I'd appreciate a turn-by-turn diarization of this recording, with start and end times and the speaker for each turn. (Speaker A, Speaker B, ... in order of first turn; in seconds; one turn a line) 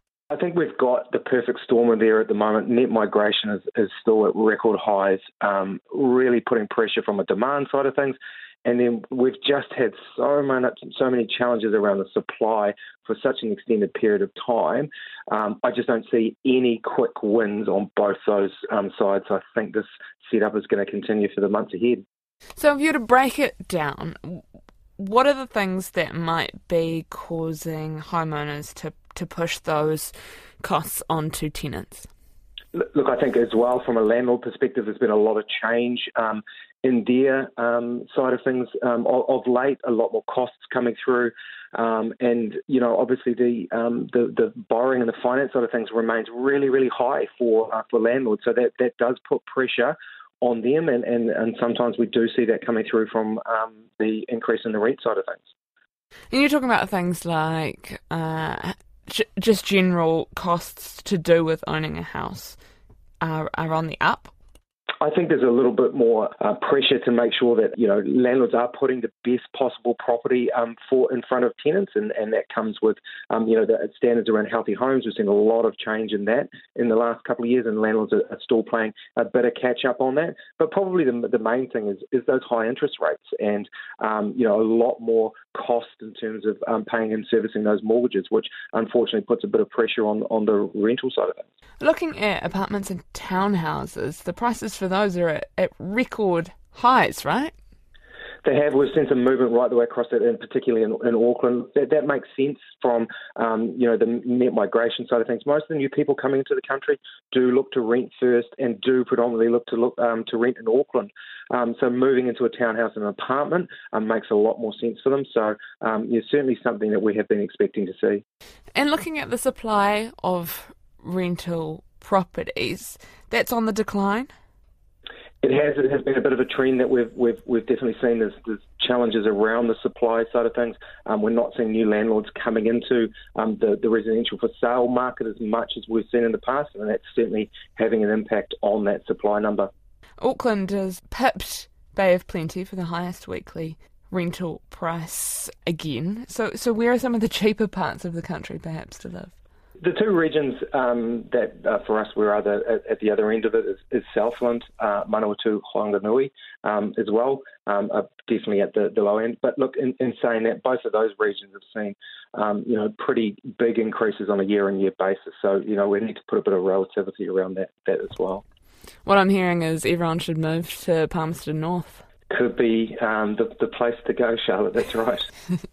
Speaker A: 0.3-22.0
Speaker B: 22.6-24.4
Speaker B: 25.0-32.1
Speaker A: 32.7-55.4
Speaker B: 56.3-62.6
Speaker B: 63.2-64.3
Speaker A: 65.0-91.4
Speaker B: 91.8-97.5
Speaker A: 98.4-118.2
Speaker B: 118.7-124.3
Speaker A: 125.4-139.7
Speaker B: 140.2-149.3
Speaker A: 149.8-168.4
Speaker B: 169.0-172.0
Speaker A: 172.3-175.3